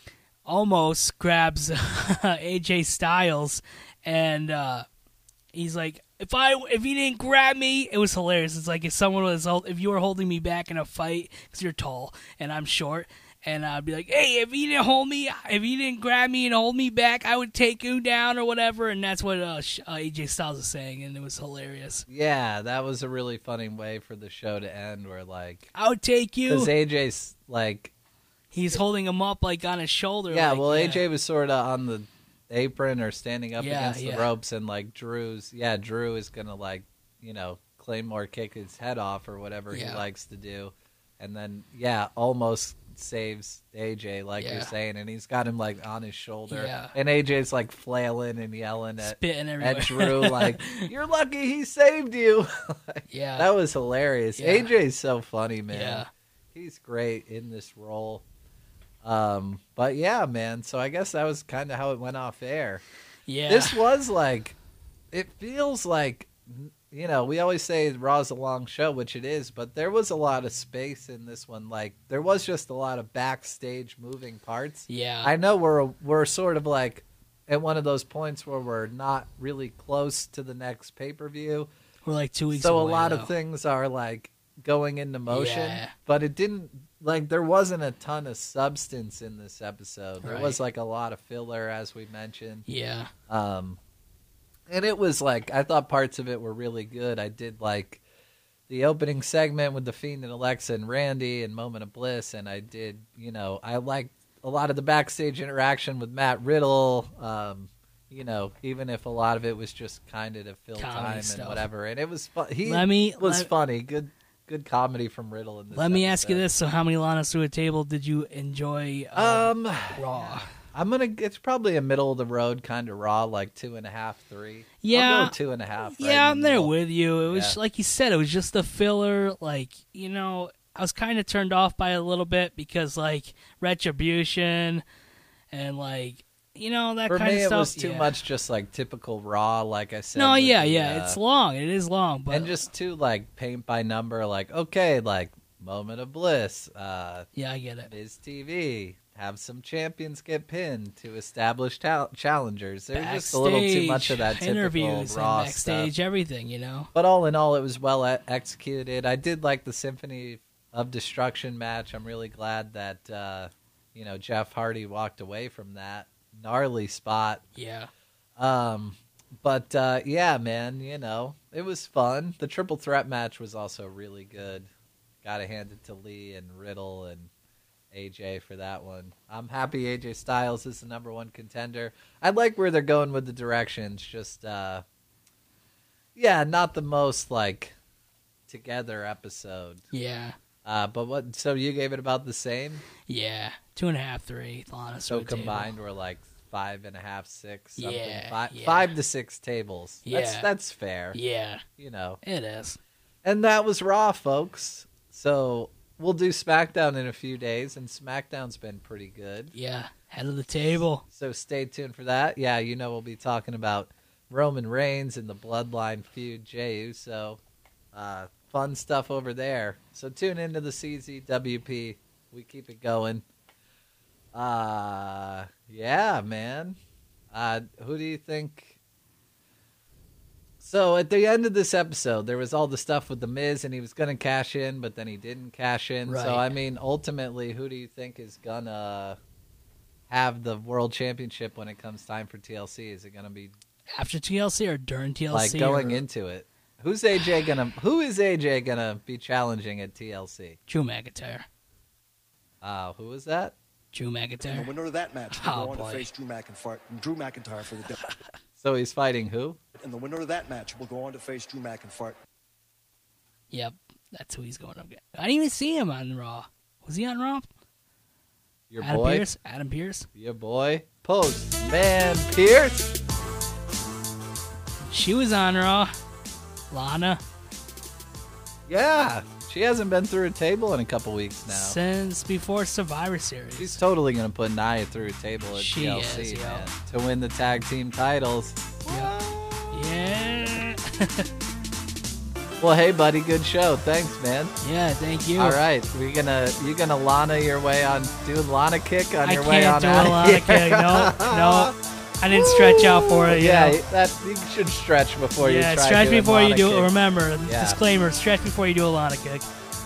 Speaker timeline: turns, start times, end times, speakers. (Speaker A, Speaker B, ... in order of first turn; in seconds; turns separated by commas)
Speaker A: 0.5-4.9, Speaker A: 5.5-22.1, Speaker B: 22.1-25.7, Speaker A: 25.8-26.7, Speaker B: 26.5-27.9, Speaker A: 28.5-31.0, Speaker B: 30.3-58.2, Speaker A: 33.6-34.3, Speaker A: 39.7-40.0, Speaker A: 44.4-44.7, Speaker A: 46.5-47.0, Speaker A: 49.0-50.9, Speaker A: 53.1-53.5, Speaker A: 54.4-54.7, Speaker A: 55.7-56.1, Speaker B: 59.0-62.8, Speaker A: 63.3-63.8, Speaker B: 63.5-64.6, Speaker B: 65.1-81.7, Speaker A: 74.9-75.3, Speaker A: 82.0-83.3, Speaker B: 82.5-92.7, Speaker A: 85.3-85.9, Speaker A: 90.2-90.6, Speaker A: 92.7-93.1, Speaker B: 93.3-93.8, Speaker B: 94.7-98.0, Speaker B: 98.7-116.5, Speaker A: 110.8-111.7, Speaker A: 112.7-113.5, Speaker A: 115.7-120.5, Speaker B: 119.2-126.7, Speaker A: 124.8-134.8, Speaker B: 127.3-127.6, Speaker A: 135.5-138.2, Speaker B: 137.1-141.2, Speaker A: 140.2-142.7, Speaker B: 142.3-147.3, Speaker A: 147.3-147.9, Speaker B: 147.9-155.9, Speaker A: 152.9-156.9, Speaker B: 156.9-167.4, Speaker A: 167.6-167.9, Speaker B: 168.4-174.7, Speaker B: 175.2-177.3, Speaker B: 177.9-184.8, Speaker B: 186.2-187.8, Speaker B: 188.5-189.8, Speaker A: 189.9-190.4, Speaker B: 190.6-192.8, Speaker A: 193.1-195.7, Speaker B: 195.1-201.2, Speaker A: 197.8-198.9, Speaker A: 200.1-200.5, Speaker A: 201.1-201.7, Speaker B: 201.8-202.2, Speaker A: 202.2-202.8, Speaker B: 203.2-209.5, Speaker A: 209.5-211.0, Speaker B: 211.1-217.4, Speaker B: 217.9-223.2, Speaker B: 224.3-226.8, Speaker B: 227.3-228.8, Speaker B: 230.6-239.2, Speaker A: 236.1-236.5, Speaker B: 240.1-243.5, Speaker A: 244.0-246.0, Speaker B: 245.3-250.6, Speaker A: 250.7-251.5, Speaker B: 252.6-253.6, Speaker A: 253.9-254.7, Speaker C: 254.4-258.1, Speaker A: 255.3-256.1, Speaker B: 258.6-259.6, Speaker C: 259.8-262.2, Speaker A: 263.5-267.5, Speaker B: 268.7-269.2, Speaker A: 268.8-270.1, Speaker B: 270.1-273.0, Speaker A: 274.9-275.9, Speaker A: 276.7-277.2, Speaker B: 278.7-281.8, Speaker A: 281.5-283.8, Speaker B: 283.6-289.8, Speaker A: 285.5-286.7, Speaker A: 288.9-289.1, Speaker A: 289.7-291.3, Speaker B: 292.6-294.5, Speaker A: 294.6-295.6, Speaker B: 295.4-301.8, Speaker A: 299.2-303.8, Speaker B: 302.3-306.9, Speaker A: 305.4-309.5, Speaker B: 307.4-307.8